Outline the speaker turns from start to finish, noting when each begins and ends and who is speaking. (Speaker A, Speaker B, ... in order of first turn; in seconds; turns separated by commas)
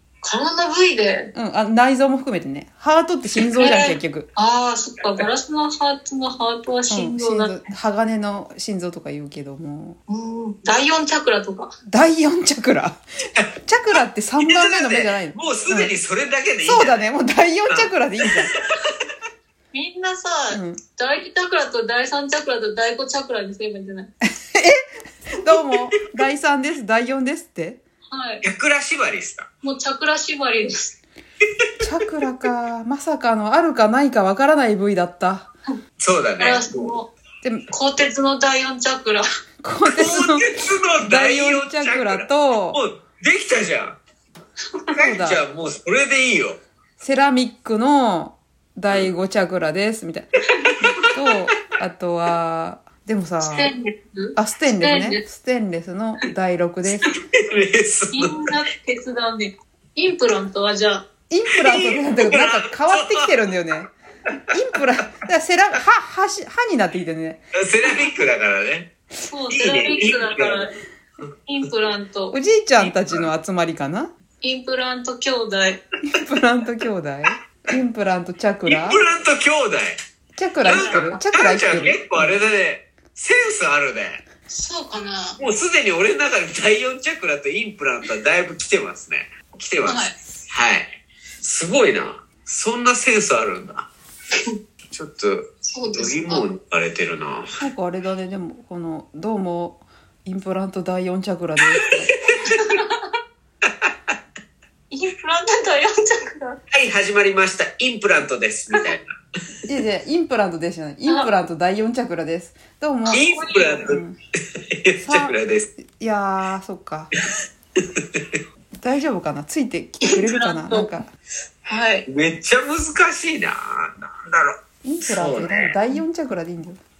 Speaker A: 0.2-1.3, Speaker B: 1.3-4.3, Speaker A: 3.6-7.7, Speaker B: 6.9-10.0, Speaker A: 10.1-11.7, Speaker B: 11.9-13.0, Speaker B: 13.7-15.9, Speaker C: 14.4-17.1, Speaker B: 16.6-18.5, Speaker C: 17.7-18.6, Speaker A: 19.7-24.1, Speaker B: 20.5-20.8, Speaker B: 24.5-24.8, Speaker B: 25.4-27.8, Speaker A: 28.1-28.4, Speaker C: 28.4-29.5, Speaker A: 29.6-30.9, Speaker B: 31.8-35.5, Speaker C: 36.0-36.9, Speaker A: 36.4-37.1, Speaker A: 37.7-39.2, Speaker B: 39.6-42.8, Speaker C: 39.9-44.0, Speaker C: 44.9-46.6, Speaker B: 45.0-45.4, Speaker B: 47.0-50.3, Speaker B: 50.9-53.7, Speaker A: 53.4-55.2, Speaker B: 54.4-57.1, Speaker C: 57.3-58.5, Speaker A: 58.1-61.0, Speaker B: 61.3-63.9, Speaker C: 61.5-63.6, Speaker B: 64.5-67.5, Speaker C: 67.6-68.9, Speaker A: 69.3-70.8, Speaker C: 69.5-70.7, Speaker A: 71.5-72.3, Speaker B: 72.3-74.1, Speaker C: 72.8-73.3, Speaker A: 74.4-75.8, Speaker B: 76.1-79.0, Speaker C: 78.7-80.0, Speaker B: 80.4-82.4, Speaker C: 80.6-84.2, Speaker A: 80.7-81.2, Speaker A: 84.5-85.4, Speaker C: 85.4-93.9, Speaker A: 89.8-90.2, Speaker C: 94.9-97.5, Speaker A: 95.7-96.5, Speaker B: 97.6-102.1, Speaker A: 102.4-103.0, Speaker C: 103.6-104.2, Speaker A: 104.9-106.6, Speaker C: 106.7-109.0, Speaker B: 109.7-114.2, Speaker C: 113.1-114.0, Speaker A: 113.3-113.8, Speaker C: 114.5-115.7, Speaker B: 115.0-117.1, Speaker C: 117.8-118.4, Speaker B: 118.8-121.1, Speaker A: 120.1-120.9, Speaker A: 121.7-122.1, Speaker C: 122.1-124.5, Speaker B: 124.8-126.8, Speaker C: 125.1-125.8